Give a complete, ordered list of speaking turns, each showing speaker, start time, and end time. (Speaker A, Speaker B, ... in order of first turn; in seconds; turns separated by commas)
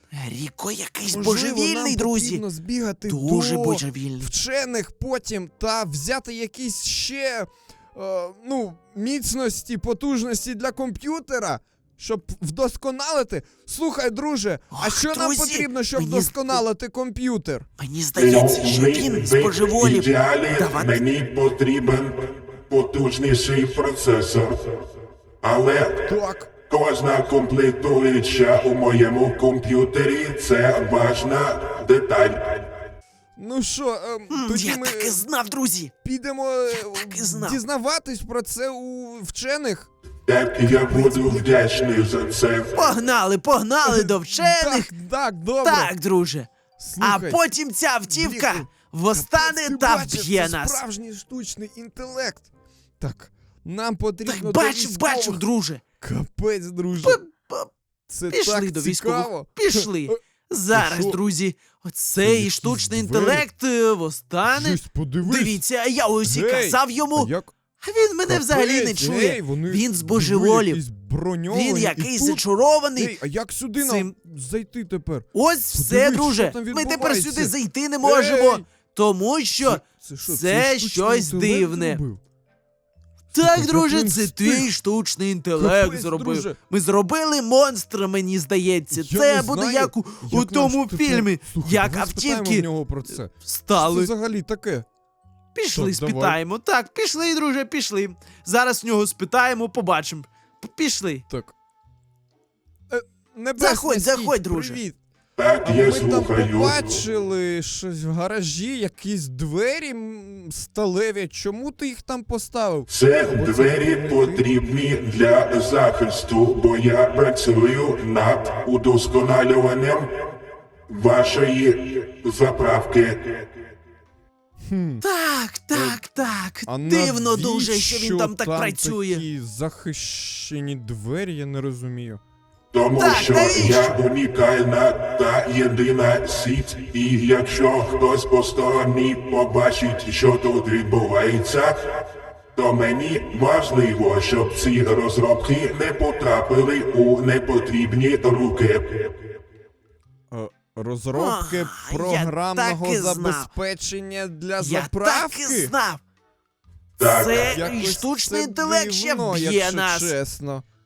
Speaker A: 0.1-2.4, Speaker B: 1.1-17.7, Speaker A: 3.1-4.3, Speaker A: 14.7-16.6, Speaker A: 17.8-21.0, Speaker C: 18.2-24.8, Speaker C: 25.4-26.1, Speaker B: 26.1-26.5, Speaker C: 26.7-32.7, Speaker B: 33.4-35.2, Speaker A: 34.3-35.9, Speaker B: 36.0-39.9, Speaker A: 36.7-37.6, Speaker C: 40.3-42.9, Speaker B: 40.7-41.5, Speaker A: 42.7-44.9, Speaker B: 43.8-45.9, Speaker A: 45.6-50.8, Speaker B: 46.8-47.4, Speaker B: 48.1-52.5, Speaker B: 53.0-55.4, Speaker A: 54.3-55.8, Speaker B: 56.0-57.2, Speaker A: 57.0-57.7, Speaker B: 58.1-60.2, Speaker A: 58.3-70.8, Speaker B: 60.7-61.2, Speaker B: 62.2-63.5, Speaker B: 64.5-65.6, Speaker B: 66.2-67.5, Speaker B: 68.3-72.4, Speaker A: 71.5-73.2, Speaker B: 73.0-78.6, Speaker A: 73.8-74.1, Speaker A: 75.3-82.0, Speaker B: 79.6-82.2, Speaker A: 83.3-94.1, Speaker B: 83.4-84.7, Speaker B: 85.6-86.6, Speaker B: 88.9-94.9, Speaker A: 95.5-101.2, Speaker B: 95.7-96.4, Speaker B: 101.3-101.5, Speaker B: 102.9-105.0, Speaker A: 103.6-104.8, Speaker C: 105.4-107.0, Speaker B: 105.6-114.5, Speaker C: 112.9-120.2, Speaker C: 120.9-123.5, Speaker B: 124.7-125.0, Speaker A: 125.0-129.2, Speaker B: 125.7-126.0, Speaker B: 126.7-132.2, Speaker C: 132.7-142.0, Speaker A: 133.0-134.0, Speaker C: 142.5-149.2, Speaker B: 150.3-155.7, Speaker A: 151.1-153.5, Speaker A: 154.6-156.0, Speaker C: 157.0-157.6, Speaker A: 157.0-160.1, Speaker B: 157.4-160.7